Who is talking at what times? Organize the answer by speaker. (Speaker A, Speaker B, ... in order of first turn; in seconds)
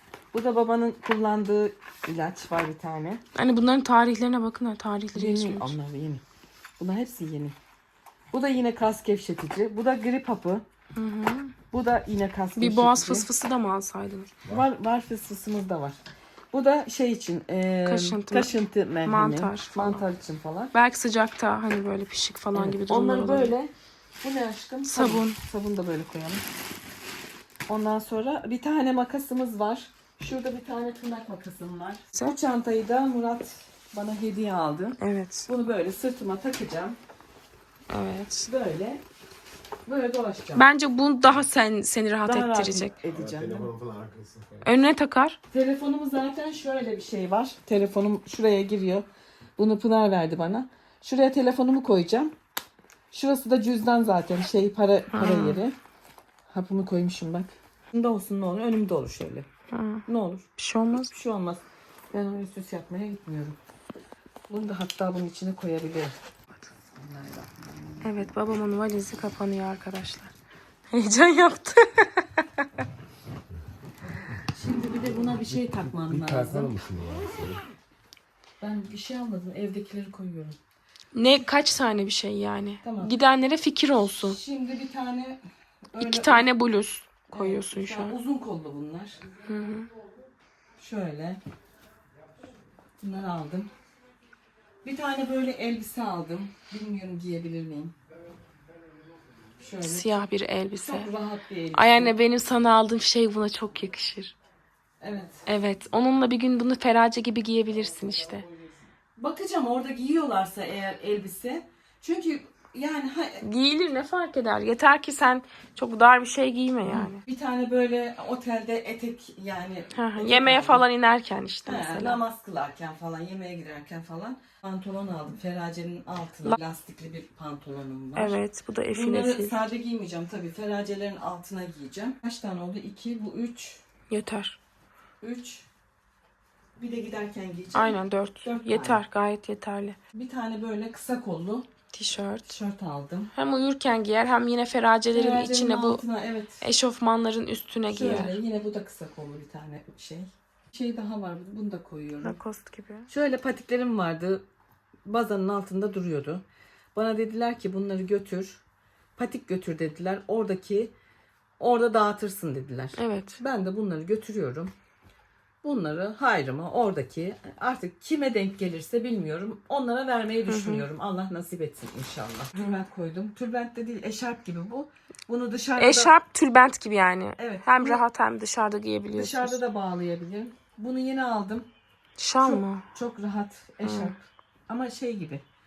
Speaker A: 0.3-3.2, 5.1-6.2, 6.8-7.5, 8.3-10.6, 11.7-13.3, 14.5-16.0, 16.5-20.7, 22.5-23.7, 24.2-26.4, 27.7-37.0, 38.4-39.0, 39.9-40.7, 42.2-43.7, 45.5-49.0, 49.6-52.3, 53.1-55.8, 56.5-59.5, 60.1-63.6, 64.5-66.1, 66.9-67.5, 74.5-76.7, 78.6-80.6, 82.8-83.1, 84.2-85.4, 85.9-86.5, 87.3-89.2, 90.8-91.4, 93.0-93.7, 94.8-97.9, 99.6-100.2, 100.8-102.1, 105.0-105.5, 109.2-113.4, 116.9-120.8, 121.7-128.4, 128.9-133.8, 135.2-135.7, 136.8-139.0, 140.1-141.7, 142.5-143.3, 145.1-146.6, 147.9-152.3, 153.1-154.4, 155.1-156.4, 156.9-158.6, 159.2-160.9, 161.6-164.7, 165.6-176.1, 177.4-178.0, 179.1-181.7, 182.4-185.4
Speaker B: 3.3-5.7, 10.9-11.5, 12.6-14.3, 17.8-18.5, 19.0-20.0, 20.7-23.5, 24.9-25.4, 35.0-35.5, 37.9-38.5, 40.5-42.9, 44.6-45.4, 55.1-55.6, 59.7-60.0, 60.6-61.1, 68.0-70.3, 70.9-72.1, 81.1-84.4, 86.0-88.2, 89.5-89.9, 99.8-101.1, 101.7-104.3, 105.5-108.4, 113.4-117.2, 119.9-122.2, 128.2-129.7, 134.1-134.6, 137.7-140.0, 141.9-142.5, 143.3-146.0, 146.6-148.4, 152.2-153.1, 162.9-163.4, 170.5-170.8, 175.8-179.6, 182.2-182.8, 183.8-184.1
Speaker C: 43.1-44.7, 75.5-77.6